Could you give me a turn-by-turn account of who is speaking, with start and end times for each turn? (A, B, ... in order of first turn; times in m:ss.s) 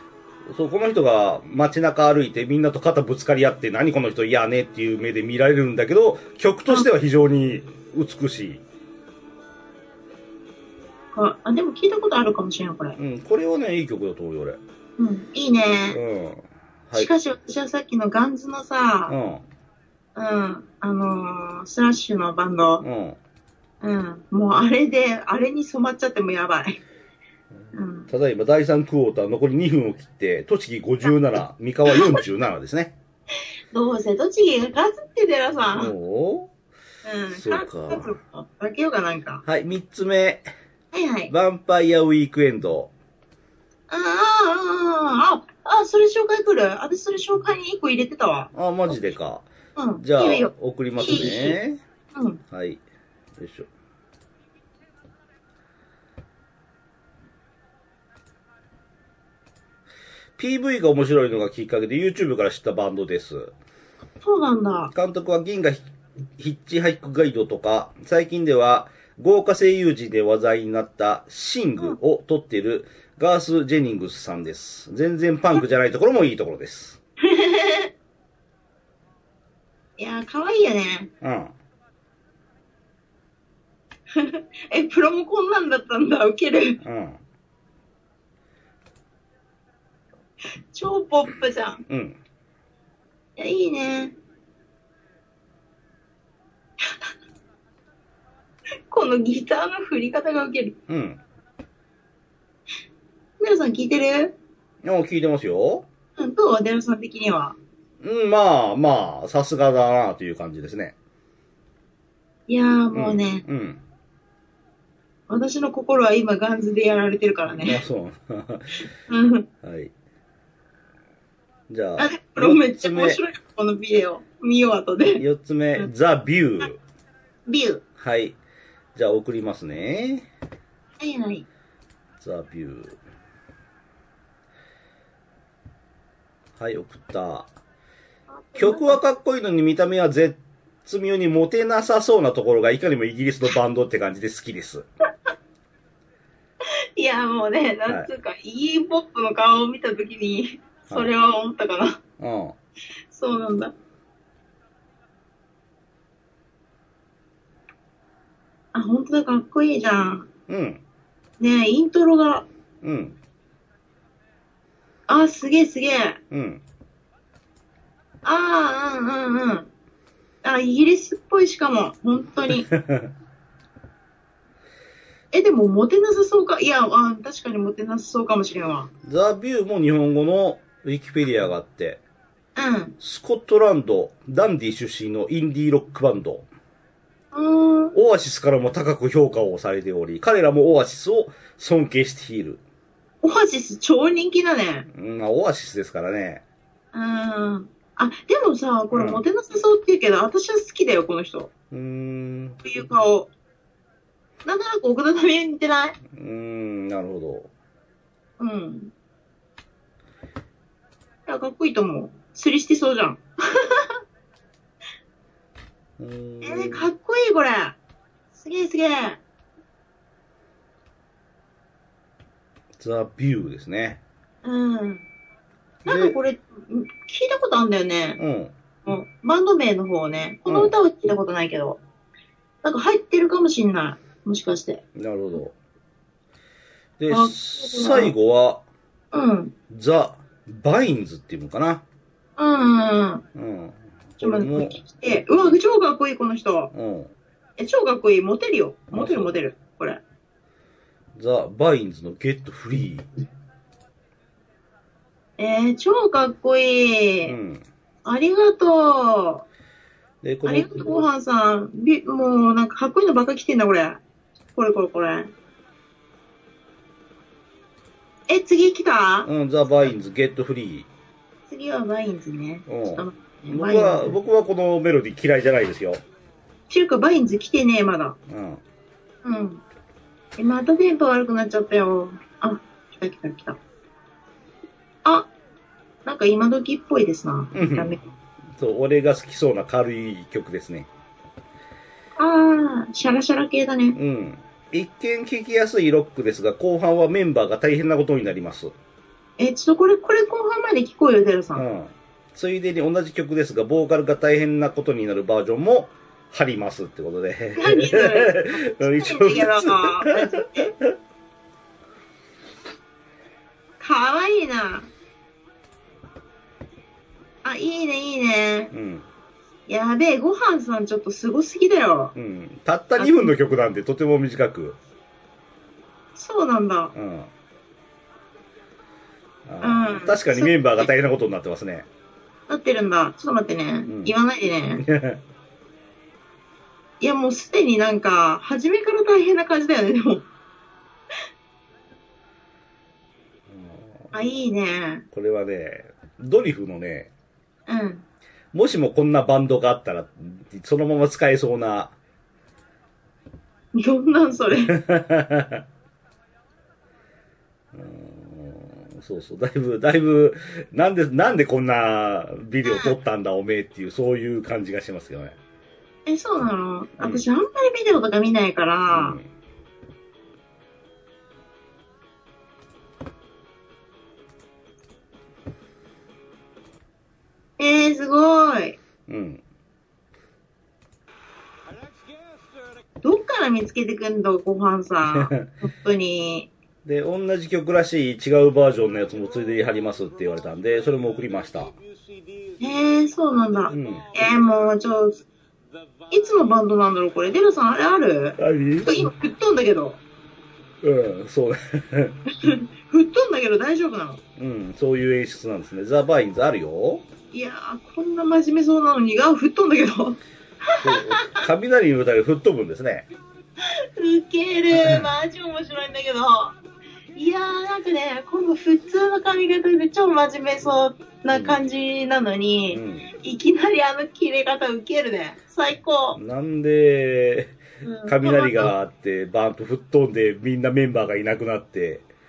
0:00.5-0:08.6 A
0:11.1-0:13.0 B
0:13.0-0:14.6 A
0:15.0-0:16.0 B
0:15.9-0:17.1 A
0:16.9-0:19.2 B
0:19.1-0:19.4 A
0:20.1-0:22.8 B
0:22.8-0:23.2 A
0:23.8-0:26.8 B
0:27.7-0:28.1 B
0:28.1-0:32.9 A
0:31.9-0:32.2 B
0:33.7-0:35.9 B
0:35.7-0:36.5 A
0:37.0-0:39.4 B
0:37.3-0:38.2 A
0:39.4-0:40.5 A
0:40.9-0:41.3 B
0:41.3-0:42.9 A
0:43.9-0:49.0 B
0:48.5-0:49.5 A
0:49.8-0:51.6 B
0:50.0-0:51.8 A
0:52.1-0:52.4 B
0:52.5-0:52.8 A
0:53.4-0:53.7 A
1:00.4-1:03.5 A
1:04.2-1:04.9 B
1:04.9-1:05.8 A
1:06.4-1:17.0 A
1:17.2-1:17.9 B
1:20.0-1:21.1 B
1:21.2-1:21.5 A
1:24.1-1:26.8 B
1:26.8-1:27.2 A
1:30.7-1:31.8 B
1:31.9-1:32.2 A
1:33.4-1:34.1 B
1:38.9-1:40.8 B
1:40.9-1:41.2 A
1:43.4-1:44.3 B
1:44.8-1:45.8 A
1:46.2-1:47.6 B
1:48.0-1:50.9 A
1:52.5-1:53.4 B
1:52.9-1:53.8 A
1:55.3-1:57.8 B
1:57.5-1:58.8 A
1:59.1-1:59.4 B
1:59.6-1:59.9 A
2:01.7-2:03.2 A
2:02.0-2:05.2 B
2:05.2-2:06.8 A
2:07.5-2:07.8 B
2:08.0-2:08.4 A
2:08.9-2:10.3 A
2:11.0-2:11.4 B
2:12.2-2:13.0 A
2:16.6-2:17.5 A
2:18.3-2:19.0 B
2:18.6-2:24.8 A
2:27.0-2:32.0 B
2:32.2-2:32.5 A
2:33.1-2:33.7 B
2:38.7-2:40.3 B
2:40.5-2:40.8 A
2:41.4-2:42.4 B
2:42.8-2:43.2 A
2:45.1-2:46.2 B
2:46.3-2:46.6 A
2:48.2-2:49.7 B
2:50.4-2:52.7 B
2:52.5-2:53.1 A
2:55.3-2:58.9 B
2:59.0-3:02.0 A
3:02.6-3:02.9 B
3:03.0-3:06.4 A
3:07.3-3:08.0 B
3:07.9-3:12.6 A
3:13.2-3:14.9 B
3:14.9-3:16.4 A
3:16.9-3:21.5 B
3:18.9-3:19.2 A
3:21.7-3:22.6 A
3:22.6-3:23.3 B
3:24.4-3:26.0 B
3:26.1-3:27.5 A
3:28.4-3:28.9 B
3:31.2-3:33.8 B
3:36.0-3:36.9 A
3:36.4-3:37.8 B
3:38.3-3:39.2 B
3:42.8-3:44.0 A
3:44.4-3:45.0 B
3:45.8-3:46.2 A
3:45.8-3:48.2 B
3:48.2-3:48.5 A
3:48.8-3:51.8 B
3:50.5-3:50.7 A
3:52.6-3:54.8 B
3:54.9-3:55.5 A
3:57.0-3:58.6 A
3:57.1-3:58.1 B
3:59.1-3:59.5 B
3:59.7-4:01.8 A
4:02.4-4:03.2 B
4:03.3-4:05.6 A
4:04.2-4:06.7 B
4:06.7-4:07.1 A
4:07.6-4:10.0 B
4:08.9-4:09.3 A
4:11.2-4:13.1 A
4:15.4-4:17.4 B
4:17.2-4:17.6 A
4:18.0-4:19.4 B
4:20.2-4:21.0 A
4:20.4-4:24.0 B
4:24.5-4:25.3 B
4:28.3-4:29.3 B
4:29.2-4:30.9 A
4:31.5-4:34.2 B
4:32.7-4:36.0 A
4:36.7-4:38.2 B
4:38.3-4:38.6 A
4:39.2-4:39.6 B
4:40.4-4:43.6 B
4:45.0-4:45.3 B
4:46.0-4:48.0 B
4:47.5-4:48.0 A
4:48.6-4:50.9 A
4:52.2-4:54.0 B
4:53.9-4:58.7 A
4:59.4-5:01.6 B
5:01.5-5:10.9 A
5:07.6-5:10.7 B
5:13.8-5:14.9 B
5:17.4-5:18.7 B
5:18.7-5:19.0 A
5:19.7-5:22.1 B
5:22.1-5:24.8 A
5:23.0-5:23.3 B
5:26.2-5:26.9 B
5:26.9-5:27.3 A
5:29.4-5:31.9 A
5:29.6-5:30.9 B
5:32.5-5:34.8 B
5:33.9-5:34.1 A
5:34.8-5:35.2 A
5:37.0-5:40.2 B
5:43.5-5:44.1 A
5:44.1-5:45.0 B
5:45.1-5:47.1 A
5:47.7-5:48.0 B
5:48.5-5:51.9 A
5:53.7-5:54.7 B
5:54.7-5:55.6 A
5:57.7-6:05.4 A
6:02.6-6:03.0 B
6:06.0-6:09.2 B
6:08.9-6:09.2 A
6:17.6-6:18.8 B
6:19.1-6:19.4 A
6:23.0-6:26.5 B
6:25.1-6:25.5 A
6:26.8-6:31.8 A
6:32.6-6:35.2 B
6:33.7-6:34.1 A
6:36.1-6:40.0 B
6:38.4-6:39.1 A
6:40.8-6:42.2 A
6:42.4-6:44.2 B
6:44.4-6:47.0 A
6:47.3-6:51.4 B
6:50.8-6:53.1 A
6:54.0-6:56.6 B
6:54.7-6:55.1 A
6:57.1-7:06.2 B
7:01.3-7:01.6 A
7:02.7-7:03.1 A
7:06.1-7:12.0 A
7:07.8-7:08.7 B